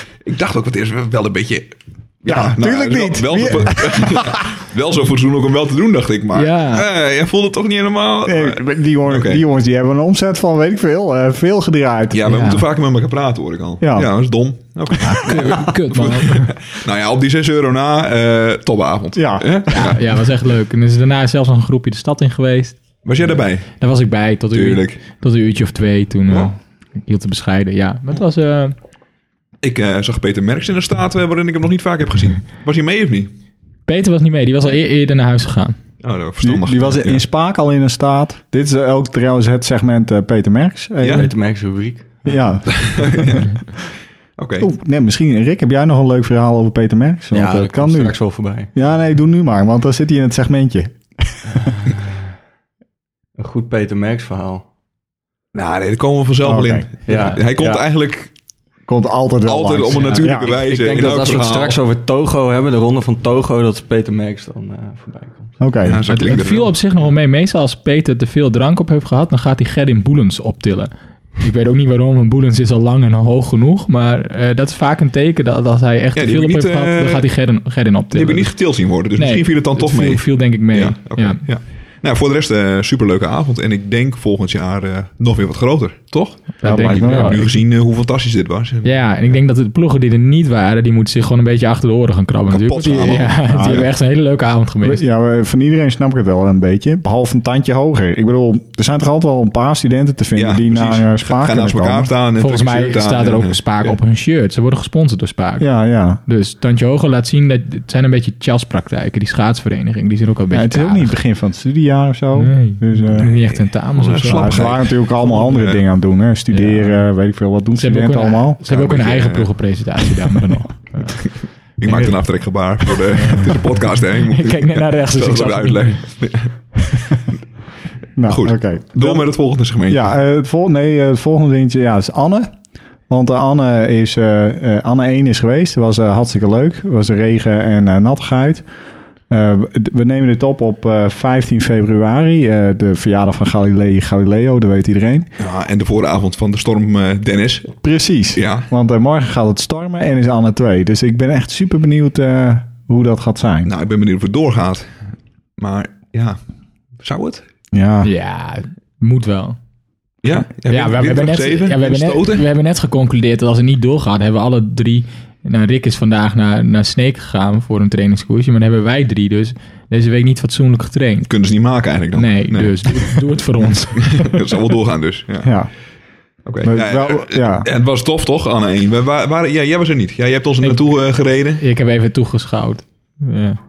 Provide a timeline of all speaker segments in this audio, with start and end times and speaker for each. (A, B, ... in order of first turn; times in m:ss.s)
0:00.2-0:09.4 A
0:02.3-0:04.5 B
0:06.3-0:06.9 C
0:08.2-0:12.4 B
0:12.1-0:20.0 A
0:12.3-0:12.6 C
0:13.8-0:14.1 B
0:15.0-0:16.5 C
0:19.1-0:19.9 B
0:19.7-0:22.8 C
0:23.0-0:23.7 A
0:23.8-0:28.7 C
0:24.5-0:25.0 A
0:29.6-0:33.3 A
0:33.9-0:35.8 C
0:36.0-0:37.2 A
0:36.4-0:41.3 B
0:41.0-0:41.3 A
0:41.1-0:42.3 D
0:42.2-0:43.5 B
0:42.7-0:43.5 A
0:44.4-0:44.7 A
0:44.6-0:48.2 B
0:47.3-0:48.7 D
0:48.7-0:51.7 B
0:51.5-0:52.3 D
0:53.4-0:54.6 D
0:55.5-0:58.3 A
0:56.4-0:56.9 B
0:57.1-0:57.8 D
0:58.9-1:00.5 B
0:59.4-1:01.8 A
0:59.9-1:00.2 C
1:00.4-1:05.6 D
1:05.6-1:06.0 B
1:05.8-1:06.7 A
1:06.1-1:18.5 C
1:16.2-1:17.2 A
1:18.1-1:29.1 A
1:19.2-1:21.4 C
1:26.6-1:27.6 C
1:26.6-1:27.4 B
1:28.8-1:35.0 C
1:32.5-1:33.9 A
1:33.5-1:33.9 B
1:34.8-1:42.1 B
1:40.3-1:43.9 A
1:42.4-1:45.7 C
1:45.6-1:46.2 B
1:46.3-1:51.1 C
1:50.5-1:53.3 B
1:52.3-1:54.6 C
1:53.1-1:55.8 A
1:54.2-1:58.6 B
1:56.5-1:57.0 C
1:57.8-2:01.2 C
1:58.7-1:59.5 A
2:01.8-2:07.2 A
2:01.8-2:02.1 C
2:03.2-2:03.5 C
2:04.3-2:06.0 C
2:08.2-2:09.3 B
2:08.3-2:10.1 A
2:09.9-2:12.5 B
2:13.1-2:18.6 B
2:19.3-2:25.3 B
2:25.4-2:27.7 A
2:27.8-2:33.7 B
2:28.3-2:28.7 A
2:33.6-2:35.0 A
2:35.6-2:36.4 A
2:37.0-2:37.4 A
2:37.7-2:38.1 B
2:38.0-2:39.6 C
2:40.2-2:42.4 A
2:40.7-2:51.3 C
2:51.3-2:53.1 A
2:52.2-2:54.4 C
2:53.9-2:55.5 A
2:55.4-2:55.7 B
2:56.4-3:01.6 A
2:56.6-2:57.7 B
3:01.6-3:03.6 C